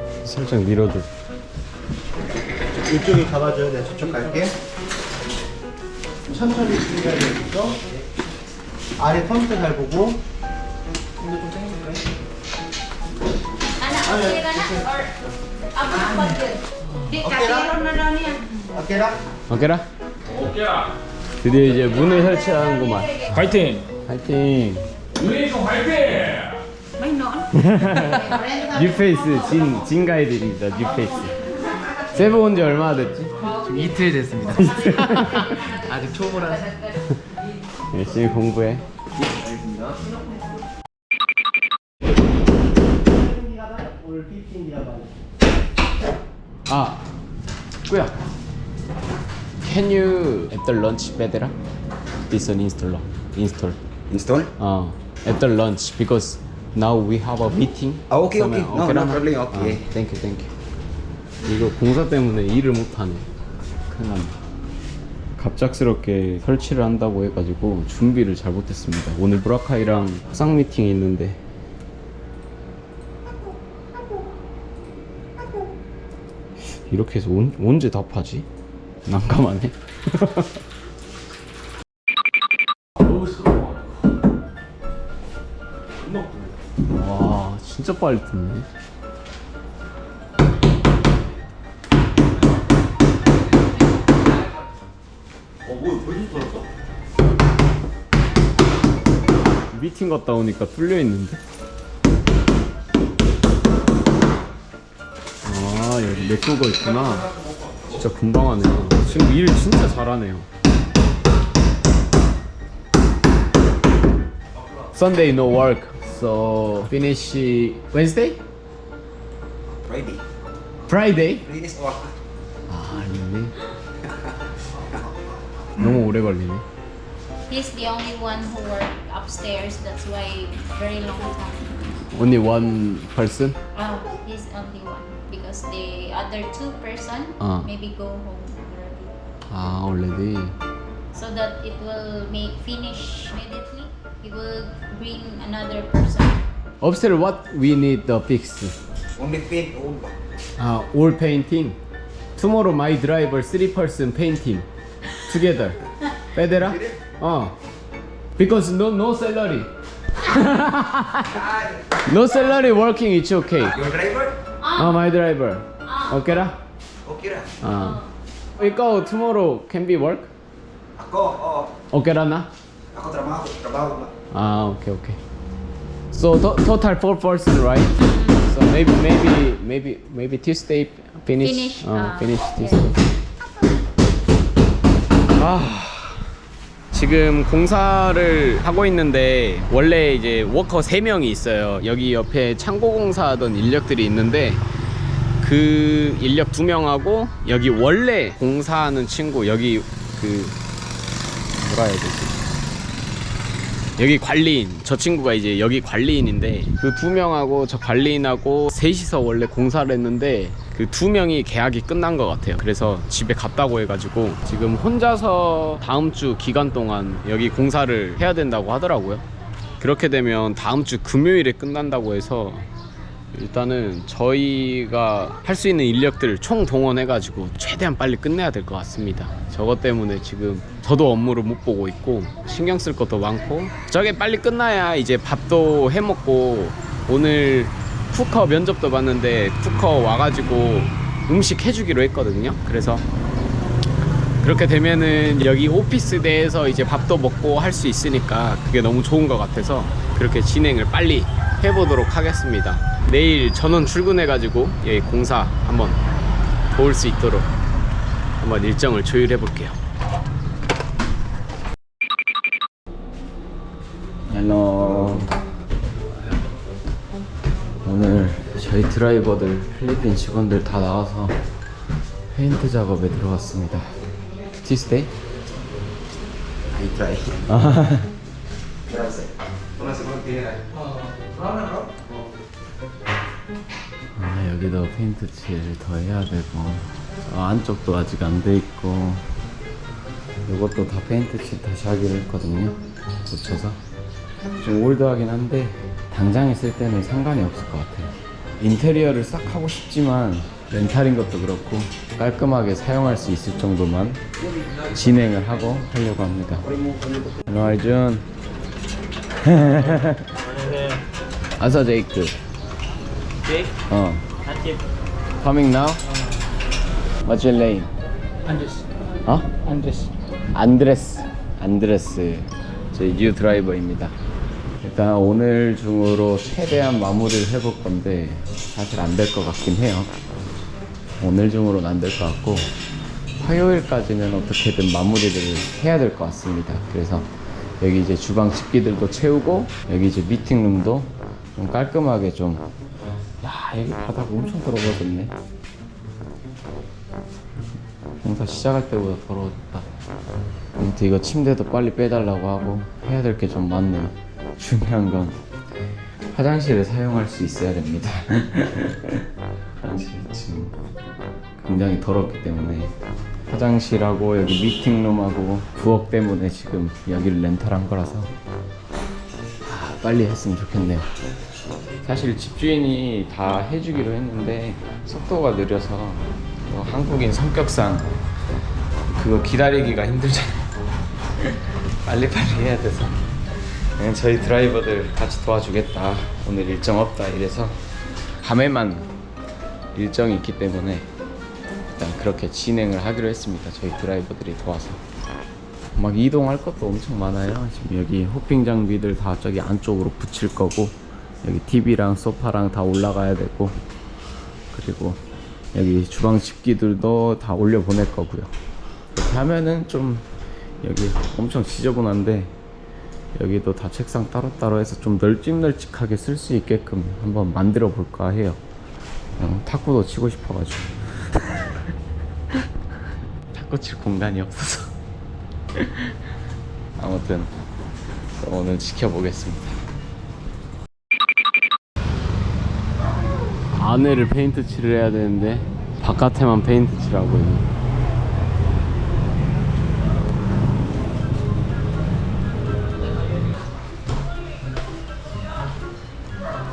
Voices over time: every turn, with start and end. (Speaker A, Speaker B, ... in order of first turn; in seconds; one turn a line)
Speaker A: 0.2-1.1
Speaker B: 2.9-4.5
Speaker B: 6.3-7.8
Speaker B: 9.0-10.2
Speaker C: 13.8-15.2
Speaker B: 14.1-14.8
Speaker C: 15.7-18.7
Speaker B: 17.2-17.8
Speaker B: 18.7-19.2
Speaker A: 19.5-19.9
Speaker A: 21.4-23.3
Speaker C: 21.8-23.4
Speaker A: 24.1-24.9
Speaker C: 27.0-27.5
Speaker A: 27.5-31.4
Speaker C: 28.3-28.8
Speaker A: 32.1-33.3
Speaker C: 33.4-33.7
Speaker D: 33.6-34.9
Speaker A: 34.4-35.7
Speaker C: 34.6-36.9
Speaker D: 35.7-36.7
Speaker A: 37.9-38.8
Speaker B: 39.3-39.8
Speaker B: 43.2-45.1
Speaker A: 46.7-47.0
Speaker A: 47.9-48.1
Speaker A: 49.6-51.5
Speaker A: 52.3-53.8
Speaker E: 54.1-54.5
Speaker A: 54.6-60.5
Speaker E: 58.1-59.8
Speaker A: 61.5-63.3
Speaker A: 63.9-64.3
Speaker A: 65.4-71.4
Speaker A: 76.7-78.5
Speaker A: 79.0-80.5
Speaker A: 86.9-88.7
Speaker E: 95.7-96.7
Speaker A: 99.7-101.4
Speaker A: 105.4-107.3
Speaker A: 107.9-110.5
Speaker A: 114.9-118.4
Speaker E: 119.7-120.2
Speaker A: 120.9-121.5
Speaker E: 121.3-122.1
Speaker A: 122.7-123.5
Speaker A: 125.8-126.6
Speaker C: 127.5-131.8
Speaker A: 132.1-133.6
Speaker C: 133.8-139.2
Speaker A: 137.4-137.7
Speaker A: 139.5-140.6
Speaker C: 141.1-146.4
Speaker A: 146.8-148.8
Speaker E: 149.2-150.2
Speaker A: 150.6-151.8
Speaker A: 152.4-154.7
Speaker A: 155.2-157.5
Speaker E: 156.6-157.0
Speaker A: 158.4-159.7
Speaker A: 160.2-161.5
Speaker E: 161.4-161.8
Speaker A: 162.0-163.8
Speaker E: 163.7-164.4
Speaker C: 164.6-164.9
Speaker A: 164.8-166.6
Speaker C: 165.9-166.2
Speaker E: 167.1-167.5
Speaker A: 167.6-168.0
Speaker C: 167.8-168.1
Speaker A: 168.6-170.3
Speaker E: 171.0-171.7
Speaker A: 171.9-172.5
Speaker E: 172.9-174.1
Speaker A: 174.3-175.2
Speaker A: 176.1-183.0
Speaker C: 178.0-178.5
Speaker C: 181.4-182.8
Speaker A: 185.3-186.2
Speaker A: 186.9-194.6
Speaker A: 195.4-200.6
Speaker A: 201.6-202.4
Speaker A: 204.0-219.2
Speaker A: 219.8-222.7
Speaker A: 223.3-243.1
Speaker A: 244.4-256.0
Speaker A: 256.7-257.5
Speaker A: 258.4-259.8
Speaker A: 264.3-265.3
Speaker A: 267.9-271.4
Speaker A: 272.3-273.9
Speaker A: 274.6-275.1
Speaker E: 276.8-277.4
Speaker A: 277.5-278.1
Speaker E: 278.9-280.8
Speaker E: 281.3-281.9
Speaker A: 284.2-289.2
Speaker A: 290.5-293.8
Speaker A: 294.6-304.2
Speaker A: 304.9-306.7
Speaker A: 307.5-308.2
Speaker A: 309.4-310.2
Speaker F: 310.4-311.0
Speaker A: 311.6-312.4
Speaker F: 313.4-313.7
Speaker A: 313.9-314.2
Speaker F: 314.4-314.8
Speaker A: 315.4-316.0
Speaker A: 317.2-317.9
Speaker F: 318.5-318.9
Speaker A: 319.3-319.6
Speaker F: 319.6-320.1
Speaker A: 320.5-324.1
Speaker A: 324.8-330.1
Speaker A: 331.2-332.7
Speaker A: 333.4-337.3
Speaker A: 337.8-342.7
Speaker A: 343.4-345.3
Speaker A: 348.2-349.9
Speaker A: 350.8-355.4
Speaker A: 356.3-359.2
Speaker A: 359.8-360.7
Speaker A: 361.6-362.9
Speaker A: 363.5-368.3
Speaker A: 369.7-371.1
Speaker A: 372.0-378.2
Speaker A: 379.1-380.7
Speaker A: 382.1-383.3
Speaker A: 384.0-387.8
Speaker A: 388.4-389.1
Speaker A: 389.9-391.1
Speaker A: 392.0-395.0
Speaker A: 396.0-403.8
Speaker A: 404.7-405.2
Speaker A: 405.7-408.5
Speaker A: 409.1-410.3
Speaker A: 410.8-412.5
Speaker A: 413.4-418.6
Speaker A: 419.4-421.8
Speaker A: 423.5-424.9
Speaker A: 425.8-426.1
Speaker A: 427.0-427.5
Speaker A: 428.4-429.8
Speaker A: 433.8-437.7